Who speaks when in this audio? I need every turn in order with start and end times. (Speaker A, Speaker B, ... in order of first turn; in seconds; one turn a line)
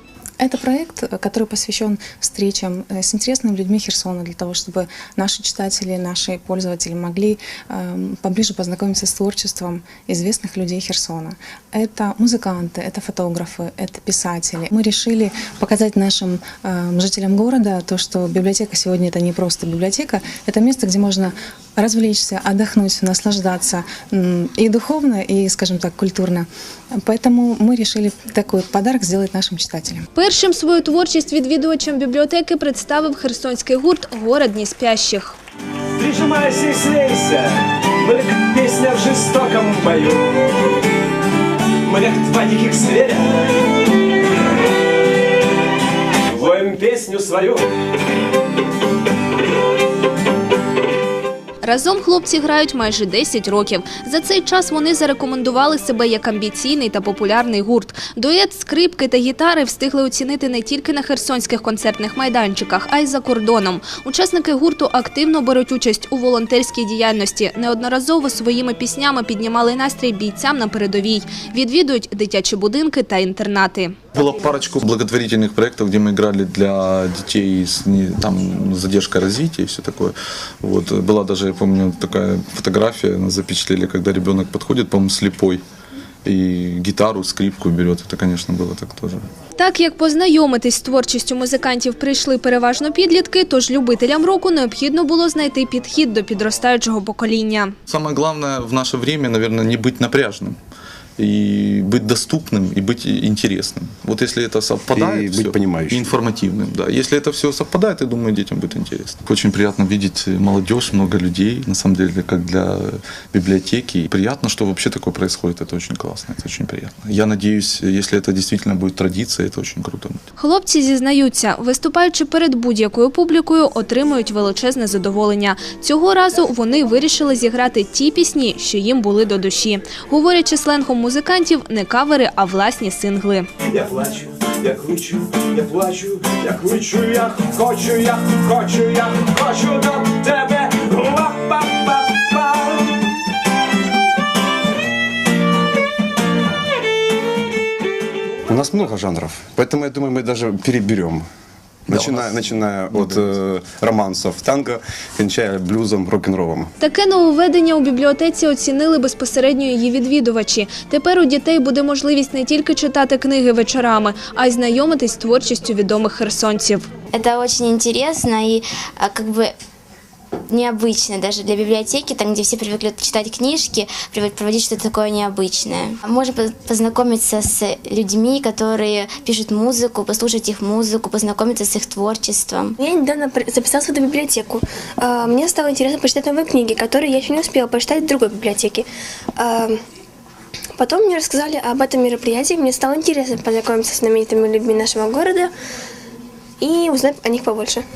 Speaker A: 0.4-30.1
Speaker B: 30.1-35.4
Speaker C: 36.0-37.5
Speaker C: 38.0-40.4
Speaker C: 41.8-43.5
Speaker C: 46.3-47.6
Speaker B: 51.6-73.9
Speaker D: 74.1-85.6
Speaker D: 86.2-89.2
Speaker B: 89.6-97.7
Speaker D: 97.9-100.6
Speaker D: 101.2-120.2
Speaker E: 104.9-106.1
Speaker B: 120.4-133.5
Speaker C: 133.7-142.7
Speaker E: 148.5-151.2
Speaker D: 151.9-153.4
Speaker E: 151.9-156.7
Speaker B: 156.8-166.8
Speaker F: 167.1-169.5
Speaker F: 170.5-182.8
Speaker G: 182.8-189.8
Speaker G: 190.8-195.5
Speaker G: 196.6-197.8